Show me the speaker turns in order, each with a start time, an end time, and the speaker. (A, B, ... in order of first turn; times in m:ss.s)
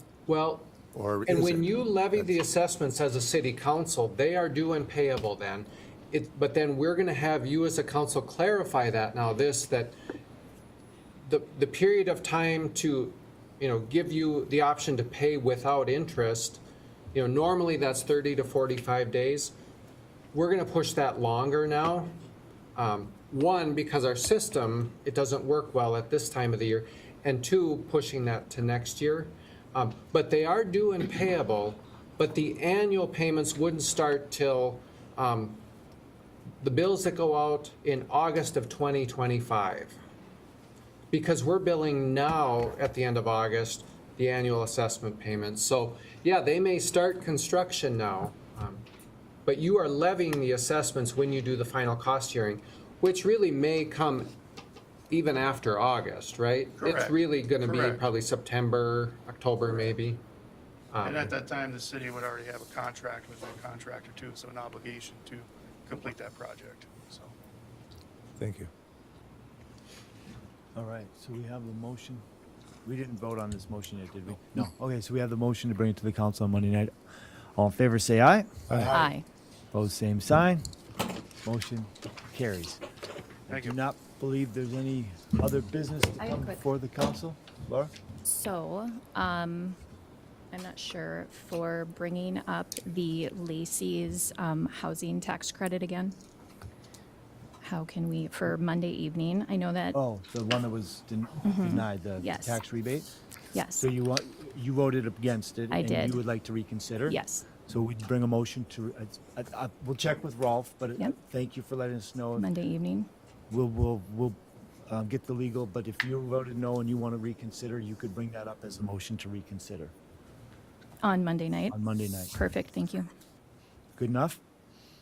0:00.3-0:00.7 A
0:00.9-0:02.4 B
0:01.2-0:10.0 A
0:11.3-0:16.6 A
0:17.1-0:19.5 A
0:20.3-0:22.1 A
0:22.8-0:35.6 A
0:36.6-0:40.0 A
0:41.1-0:48.8 A
0:49.4-0:54.3 A
0:55.1-1:00.2 A
0:56.8-0:58.0 C
1:00.9-1:01.3 A
1:01.0-1:07.3 C
1:08.4-1:08.7 B
1:10.7-1:12.2 D
1:12.8-1:16.9 D
1:17.6-1:19.0 D
1:18.7-1:19.0 B
1:18.8-1:19.2 E
1:19.7-1:20.7 D
1:21.4-1:22.8 D
1:23.5-1:27.9 D
1:23.5-1:23.8 C
1:28.2-1:29.8 E
1:30.5-1:36.2 E
1:37.6-1:40.0 E
1:39.9-1:43.1 D
1:41.4-1:42.6 E
1:43.5-1:43.9 E
1:43.7-1:52.5 D
1:45.7-1:46.2 E
1:47.1-1:47.4 E
1:52.4-1:53.1 E
1:53.5-1:59.9 D
2:01.0-2:01.8 E
2:01.7-2:02.3 D
2:02.3-2:03.1 E
2:04.0-2:04.4 D